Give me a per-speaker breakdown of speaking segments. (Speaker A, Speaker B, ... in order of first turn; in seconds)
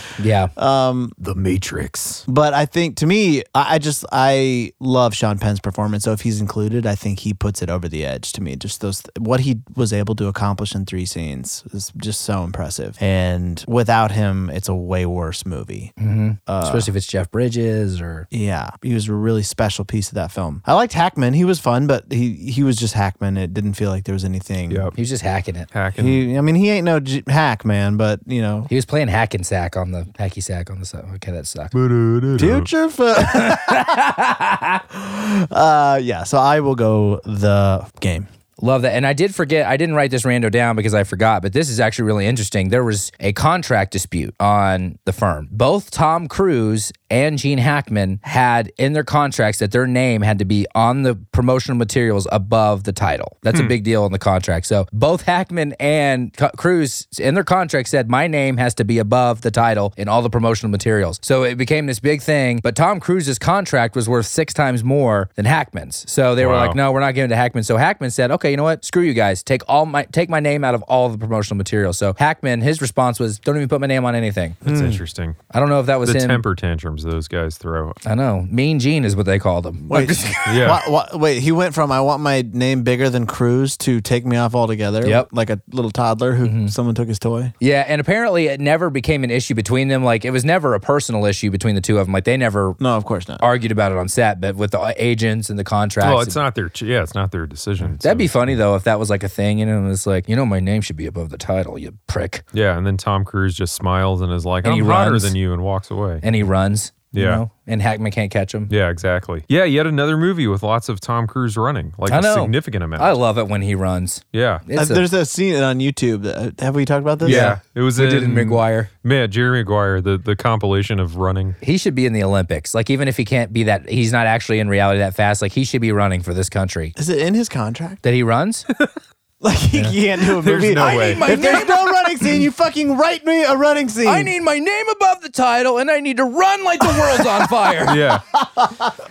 Speaker A: 0.2-0.5, 16.0-18.3, 24.9-25.7, 28.7-31.7, 33.2-34.8, 38.6-74.7, 75.5-76.4, 78.0-80.7, 86.4-86.7, 87.6-92.8, 93.4-96.4, 98.0-102.4, 104.6-105.3, 106.2-108.7, 112.1-115.0, 117.2-118.9, 121.6-126.9, 128.0-128.7, 130.7-131.9, 134.0-138.1
Speaker B: 0.6-1.1, 2.3-15.9, 16.5-16.9, 18.3-24.9, 26.0-28.7, 32.4-34.1, 34.9-38.3, 74.7-75.0, 79.9-87.5, 92.8-93.4, 114.7-117.5, 127.0-128.0, 129.4-134.3, 138.4-138.9
Speaker C: 1.2-2.2, 24.7-24.9, 25.7-26.2, 31.7-32.7, 66.4-66.8, 74.6-75.4, 76.0-78.0, 80.5-80.8, 96.0-98.6, 102.5-106.2, 107.1-107.4, 108.7-113.2, 114.3-114.6, 117.2-121.6, 130.4-131.5, 137.8-138.2